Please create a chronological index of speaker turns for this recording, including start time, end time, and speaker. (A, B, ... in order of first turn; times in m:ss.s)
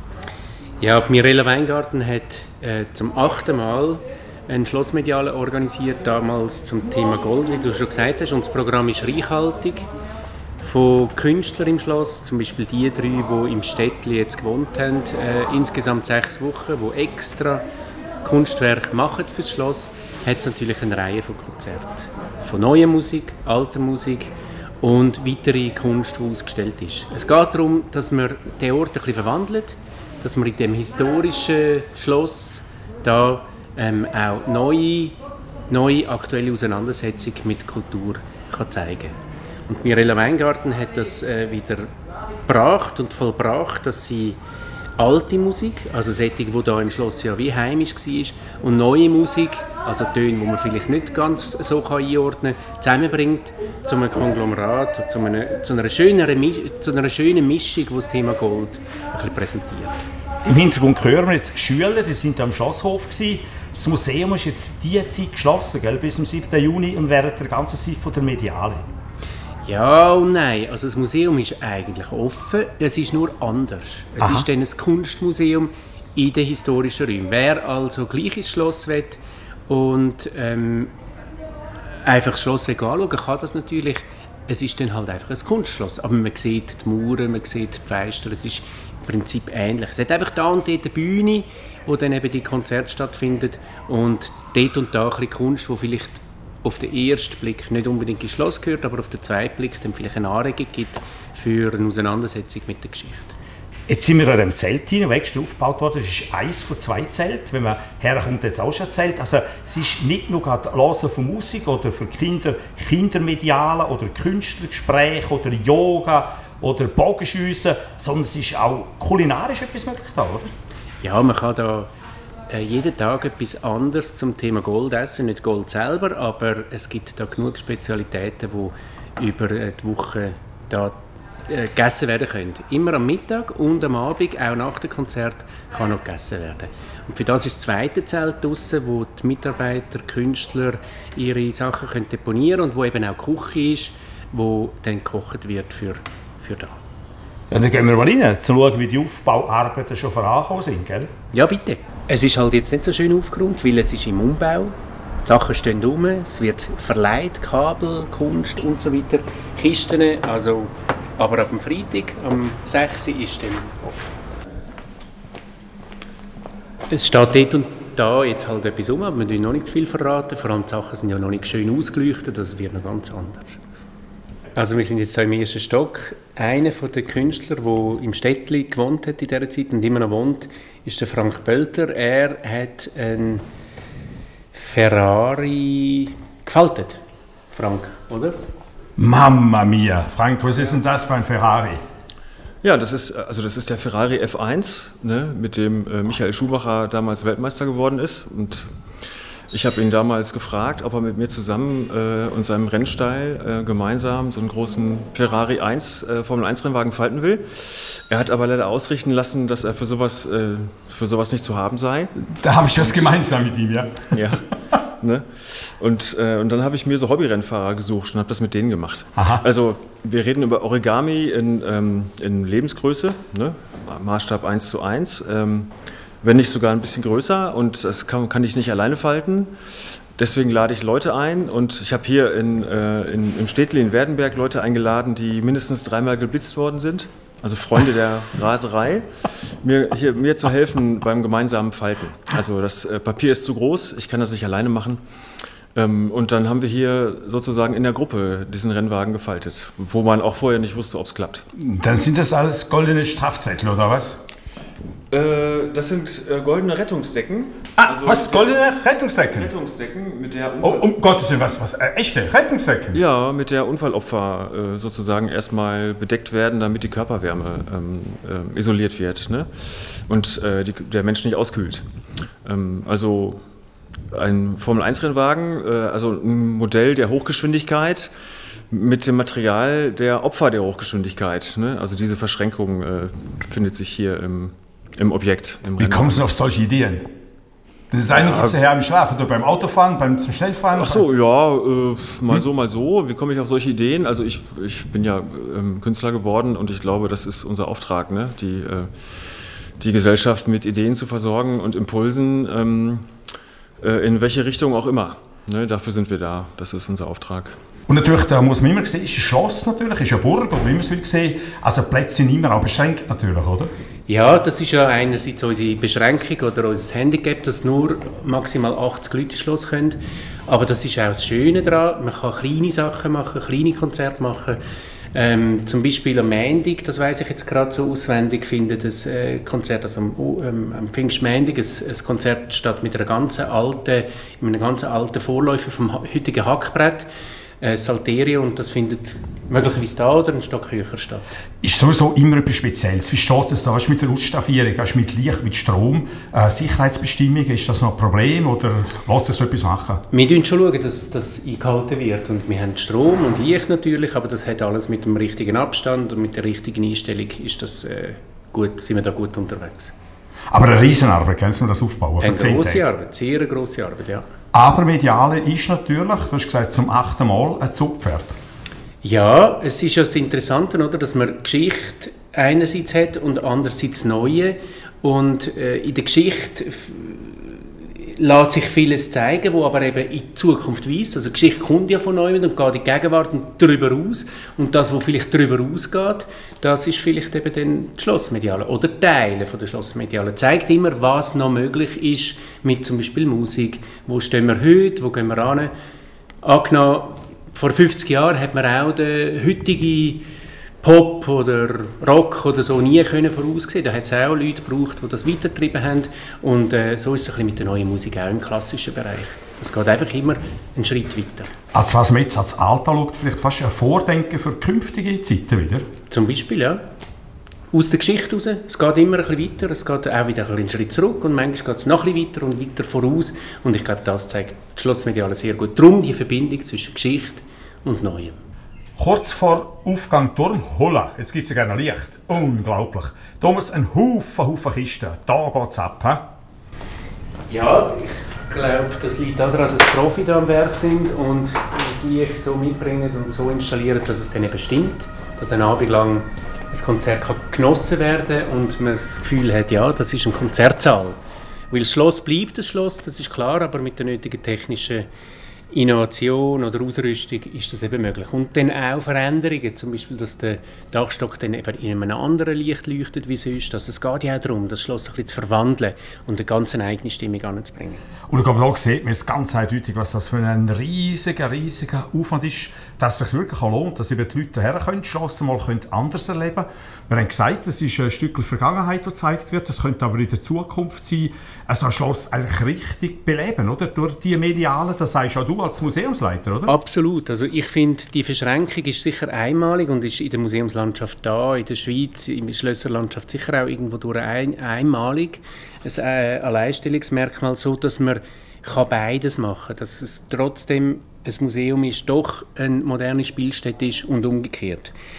0:00.8-0:09.9 A
0:10.6-0:17.6 A
0:18.2-0:35.2 A
0:35.7-0:39.2 A
0:39.7-0:41.9 A
0:42.5-0:44.4 A
0:45.0-1:00.0 A
1:00.4-1:08.8 B
1:09.6-1:20.9 A
1:14.2-1:14.5 B
1:22.0-1:43.4 A
1:43.9-2:00.5 B
2:01.0-2:01.9 A
2:02.5-2:10.9 A
2:11.5-2:26.7 A
2:27.5-2:31.1 B
2:31.3-2:44.0 A
2:46.9-2:53.6 A
2:54.6-3:03.4 A
3:04.5-3:07.0 A
3:07.5-3:08.4 A
3:09.0-3:11.8 B
3:12.6-3:18.7 C
3:19.5-3:32.1 C
3:32.3-3:34.1 B
3:32.7-3:33.1 C
3:34.1-3:34.4 C
3:35.0-3:49.5 C
3:39.2-3:39.4 B
3:50.2-3:59.1 C
3:59.6-4:05.0 C
4:05.7-4:11.4 C
4:11.6-4:14.2 B
4:15.1-4:18.7 C
4:17.8-4:19.5 B
4:19.3-4:20.9 C
4:20.6-4:23.0 B
4:22.9-4:31.8 C
4:32.4-4:33.4 C
4:34.1-4:38.1 C
4:38.7-4:46.2 C
4:45.8-4:47.1 B
4:47.9-4:51.0 B
4:48.1-4:48.6 C
4:50.7-4:58.9 C
4:59.8-5:03.1 C
5:03.8-5:07.6 C
5:07.9-5:13.7 B
5:14.1-5:24.6 A
5:25.1-5:37.1 A
5:37.6-5:41.2 A
5:41.6-5:50.0 B
5:50.1-5:59.9 A
6:00.5-6:02.8 B
6:02.2-6:04.2 A
6:04.5-6:08.3 B
6:09.0-6:35.7 A
6:36.4-6:40.2 A
6:40.8-6:51.5 A
6:51.7-6:55.8 B
6:56.1-6:56.8 A
6:57.7-7:08.4 A
7:09.0-7:16.3 B
7:17.5-7:31.2 A
7:31.7-7:35.1 A
7:35.7-7:48.0 A
7:48.3-8:06.7 B
8:06.7-8:24.9 A